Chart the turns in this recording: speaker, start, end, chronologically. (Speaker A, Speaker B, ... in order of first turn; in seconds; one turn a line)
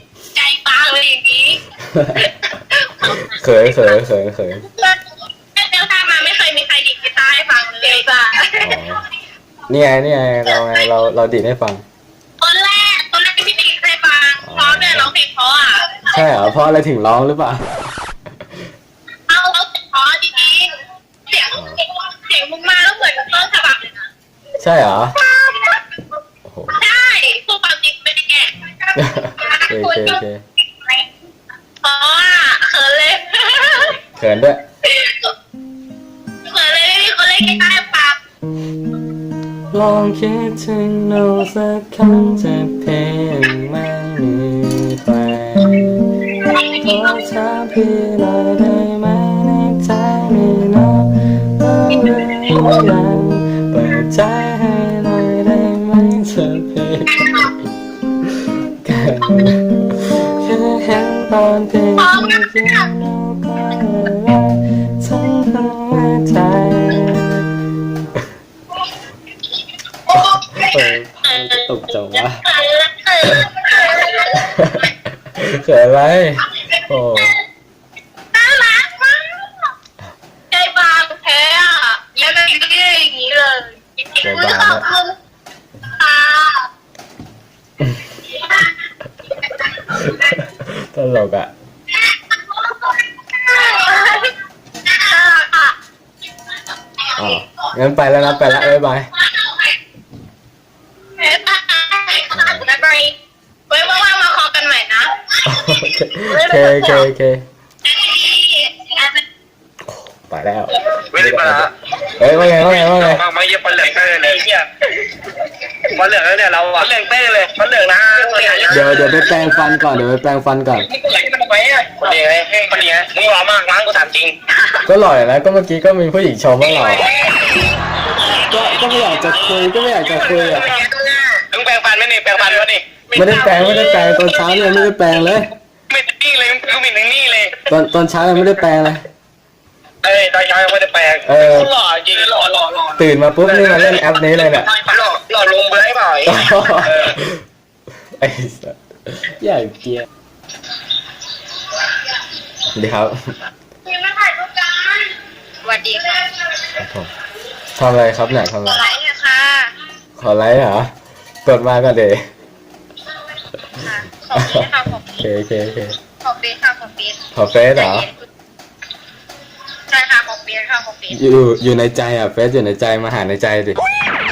Speaker A: 0.3-1.6
Speaker B: 1.8-2.3
Speaker A: 2.3-3.9
Speaker B: 3.0-4.7
Speaker A: 4.7-5.0
Speaker A: 5.6-8.8
Speaker B: 8.6-9.1
Speaker B: 9.7-11.8
Speaker A: 12.4-16.2
Speaker B: 14.4-15.1
Speaker B: 16.1-17.8
Speaker A: 19.3-20.8
Speaker A: 21.3-24.1
Speaker B: 21.5-21.8
Speaker B: 24.6-25.2
Speaker A: 25.2-25.8
Speaker B: 26.4-26.8
Speaker A: 26.7-30.2
Speaker B: 28.9-30.4
Speaker A: 31.8-34.0
Speaker B: 34.1-34.6
Speaker A: 34.9-35.3
Speaker A: 36.5-38.2
Speaker B: 39.7-46.0
Speaker A: 46.4-46.8
Speaker B: 46.8-57.5
Speaker B: 58.8-67.5
Speaker A: 62.0-62.9
Speaker B: 70.1-72.5
Speaker A: 70.2-70.8
Speaker A: 71.3-71.7
Speaker A: 72.5-74.5
Speaker B: 73.2-73.5
Speaker B: 74.3-77.4
Speaker A: 78.3-79.4
Speaker A: 80.5-85.1
Speaker B: 84.2-84.9
Speaker A: 85.9-86.7
Speaker B: 87.8-88.2
Speaker B: 89.7-91.5
Speaker A: 92.6-94.3
Speaker A: 94.9-95.7
Speaker B: 97.2-99.1
Speaker A: 101.2-103.2
Speaker B: 102.3-102.7
Speaker A: 103.7-105.2
Speaker B: 105.4-107.5
Speaker A: 106.3-107.0
Speaker A: 107.9-109.2
Speaker B: 109.9-113.2
Speaker C: 111.1-111.7
Speaker C: 112.8-114.7
Speaker C: 115.9-119.5
Speaker A: 118.4-118.8
Speaker B: 118.7-120.9
Speaker C: 120.9-124.4
Speaker B: 124.8-127.2
Speaker C: 127.1-127.6
Speaker A: 127.3-127.7
Speaker C: 128.2-129.7
Speaker B: 128.3-130.7
Speaker C: 130.2-134.3
Speaker B: 133.2-135.5
Speaker C: 135.9-137.6
Speaker B: 137.7-139.0
Speaker C: 140.0-144.0
Speaker B: 141.2-141.7
Speaker B: 143.0-144.7
Speaker C: 144.7-147.2
Speaker B: 146.3-147.4
Speaker B: 148.2-150.1
Speaker B: 152.8-153.3
Speaker A: 153.9-155.1
Speaker A: 155.6-156.4
Speaker B: 156.8-157.1
Speaker B: 157.8-158.9
Speaker A: 158.7-159.8
Speaker B: 160.2-160.9
Speaker B: 161.4-162.2
Speaker A: 163.7-165.2
Speaker B: 164.3-166.0
Speaker A: 166.2-168.3
Speaker B: 167.3-168.1
Speaker A: 169.9-171.2
Speaker B: 171.1-173.8